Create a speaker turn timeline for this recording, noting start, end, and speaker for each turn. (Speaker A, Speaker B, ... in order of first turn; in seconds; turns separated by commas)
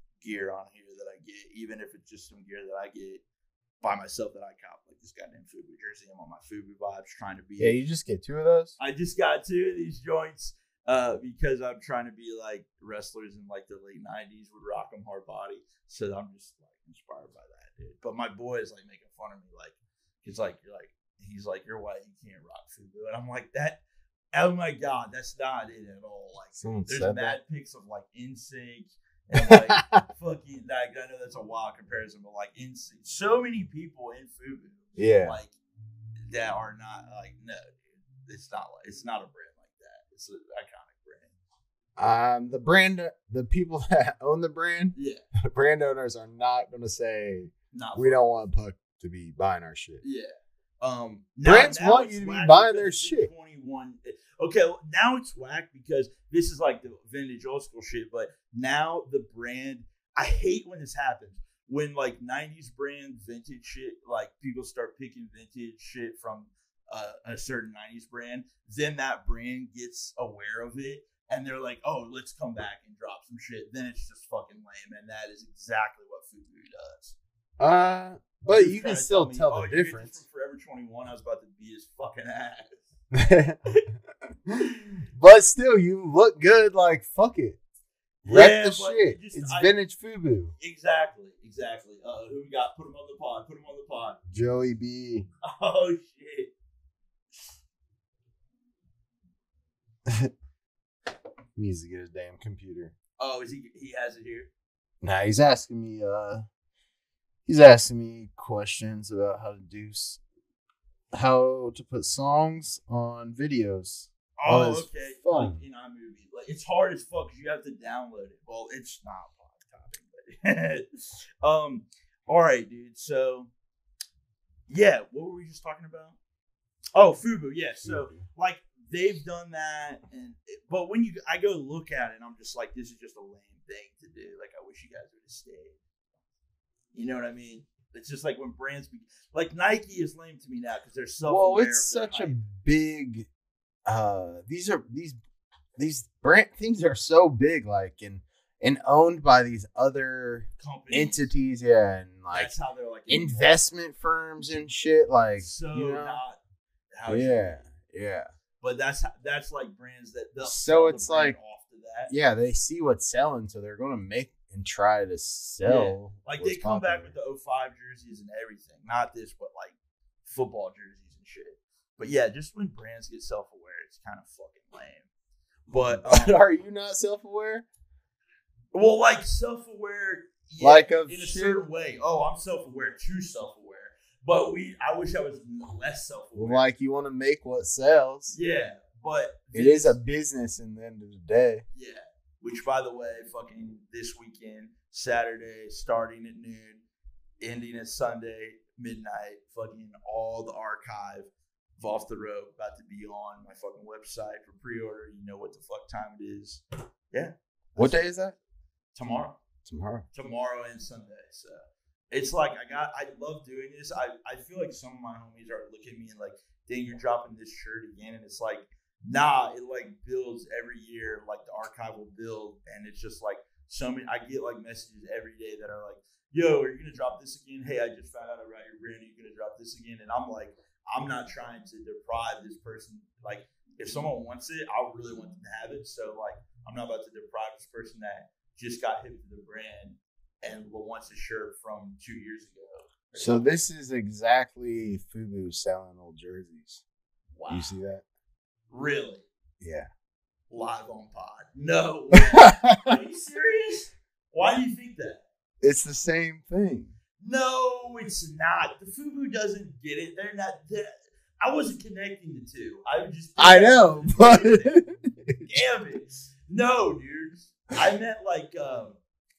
Speaker A: 0.2-3.2, Speaker A: 3.8-7.8, Speaker B: 7.6-8.7, Speaker A: 8.8-23.8, Speaker A: 24.3-35.5, Speaker B: 26.6-27.4, Speaker B: 29.4-30.0, Speaker B: 35.0-35.4, Speaker A: 36.2-41.3, Speaker B: 42.0-44.9, Speaker A: 44.9-45.2, Speaker B: 45.5-50.0, Speaker A: 47.7-48.3, Speaker A: 50.0-77.2, Speaker B: 51.4-53.3, Speaker B: 77.6-80.2, Speaker A: 78.5-82.9, Speaker B: 83.1-83.6, Speaker B: 85.2-87.6, Speaker A: 88.2-89.7, Speaker B: 88.3-90.5, Speaker A: 90.6-94.2, Speaker B: 94.3-95.2, Speaker A: 95.4-96.5, Speaker B: 101.5-102.9, Speaker A: 103.2-104.5, Speaker B: 105.0-106.4, Speaker B: 107.5-110.2, Speaker B: 111.1-115.6, Speaker A: 114.4-123.5, Speaker A: 124.7-126.2, Speaker A: 126.9-135.8, Speaker B: 127.8-128.2, Speaker A: 136.9-142.4, Speaker B: 141.2-143.3, Speaker B: 143.8-145.2, Speaker B: 145.8-152.5, Speaker A: 150.6-151.3, Speaker A: 152.3-153.6, Speaker B: 153.1-156.2, Speaker A: 155.4-156.4, Speaker A: 156.9-157.6, Speaker B: 157.1-158.3, Speaker A: 158.6-162.1, Speaker B: 160.4-161.4, Speaker B: 162.1-167.2, Speaker A: 165.6-175.1, Speaker A: 175.7-176.4, Speaker B: 175.7-177.6, Speaker A: 178.7-186.7, Speaker B: 180.6-181.6, Speaker B: 186.3-188.3, Speaker A: 188.3-190.0, Speaker B: 189.5-191.6, Speaker A: 191.7-196.8, Speaker A: 197.4-208.3, Speaker B: 207.8-208.3, Speaker A: 208.9-209.4, Speaker B: 209.7-210.1, Speaker A: 210.1-243.6, Speaker B: 243.2-246.8, Speaker A: 247.3-247.8, Speaker B: 247.5-248.0, Speaker A: 248.7-249.3, Speaker B: 249.6-249.9, Speaker A: 250.5-255.2, Speaker B: 252.3-252.9, Speaker B: 255.6-256.9, Speaker A: 257.2-264.8, Speaker B: 263.4-265.5, Speaker A: 265.4-268.9